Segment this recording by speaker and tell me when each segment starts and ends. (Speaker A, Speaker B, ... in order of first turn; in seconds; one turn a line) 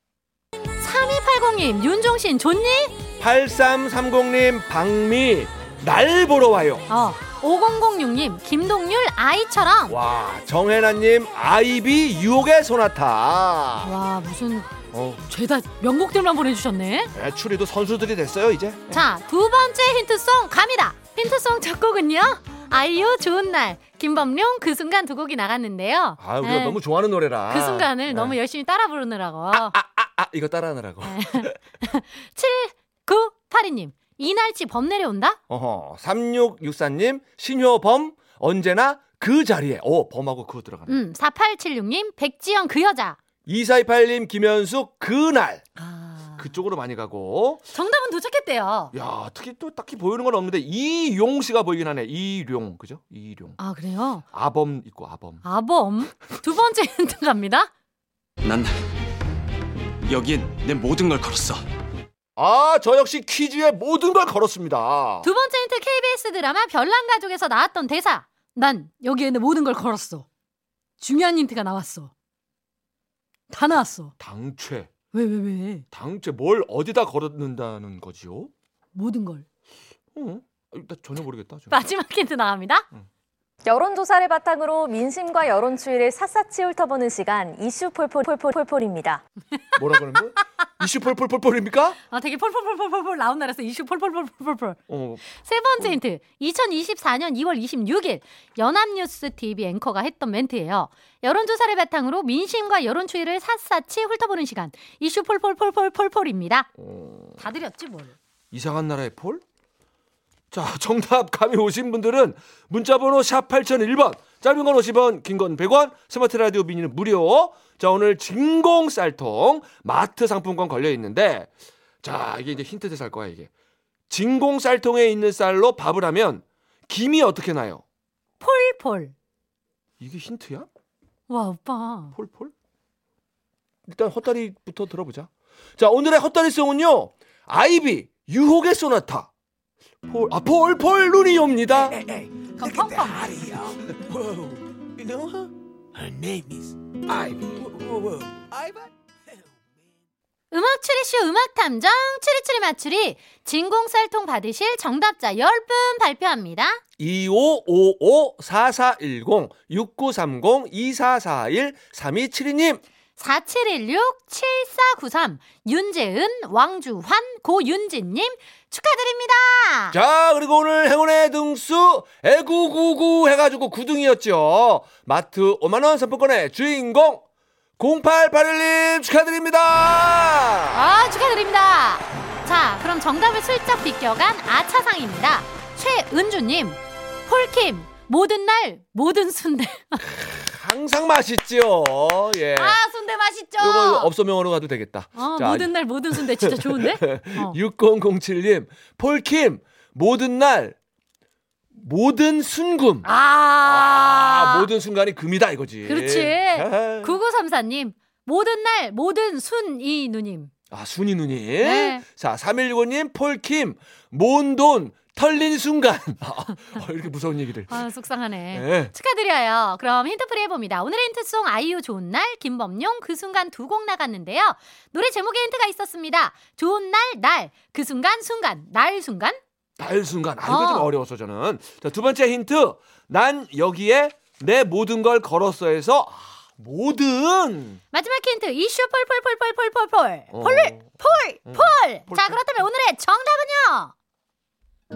Speaker A: 0.8-3.0
Speaker B: 3.2-6.9
Speaker A: 6.9-10.0
Speaker B: 9.9-13.9
Speaker A: 13.8-14.7
Speaker B: 14.9-15.2
Speaker A: 15.3-17.1
Speaker B: 17.1-19.0
Speaker A: 18.9-26.8
Speaker B: 26.2-28.4
Speaker A: 27.5-29.7
Speaker B: 29.5-31.6
Speaker A: 31.0-35.4
Speaker B: 35.5-41.0
Speaker A: 40.9-43.2
Speaker B: 43.5-45.6
Speaker A: 45.8-46.4
Speaker B: 46.4-47.6
Speaker A: 47.7-48.9
Speaker B: 48.9-53.6
Speaker A: 53.6-54.2
Speaker B: 54.3-55.4
Speaker A: 55.4-57.7
Speaker C: 58.4-58.8
Speaker C: 60.0-61.6
Speaker B: 62.4-65.3
Speaker A: 65.2-70.2
Speaker A: 71.0-72.1
Speaker A: 73.5-74.1
Speaker B: 74.2-74.9
Speaker A: 75.1-75.8
Speaker B: 75.9-78.5
Speaker A: 78.9-79.4
Speaker B: 80.1-81.8
Speaker A: 81.7-82.8
Speaker D: 83.6-89.2
Speaker B: 89.8-92.0
Speaker A: 92.1-94.8
Speaker B: 94.9-95.2
Speaker A: 95.3-106.7
Speaker B: 106.8-107.4
Speaker A: 107.4-108.2
Speaker B: 108.5-109.4
Speaker B: 110.5-121.5
Speaker B: 122.0-123.5
Speaker B: 124.1-127.8
Speaker A: 128.4-129.1
Speaker B: 130.0-130.7
Speaker A: 131.3-132.1
Speaker B: 132.1-132.5
Speaker B: 133.9-139.3
Speaker B: 140.0-142.1
Speaker A: 142.6-143.7
Speaker B: 143.6-144.4
Speaker C: 146.0-146.6
Speaker B: 147.1-148.2
Speaker A: 150.5-156.8
Speaker B: 157.0-162.8
Speaker A: 163.2-169.9
Speaker B: 169.9-177.2
Speaker B: 177.8-180.8
Speaker A: 180.7-190.0
Speaker B: 190.0-192.8
Speaker A: 192.5-194.1
Speaker B: 193.6-200.8
Speaker A: 195.2-197.6
Speaker B: 201.7-203.1
Speaker A: 203.0-204.7
Speaker B: 203.6-207.2
Speaker A: 205.8-210.5
Speaker B: 210.7-217.8
Speaker A: 211.6-212.0
Speaker A: 217.7-229.4
Speaker B: 218.5-218.9
Speaker B: 229.8-237.8
Speaker A: 230.4-230.9
Speaker A: 237.9-243.9
Speaker B: 240.3-240.9
Speaker B: 241.4-242.4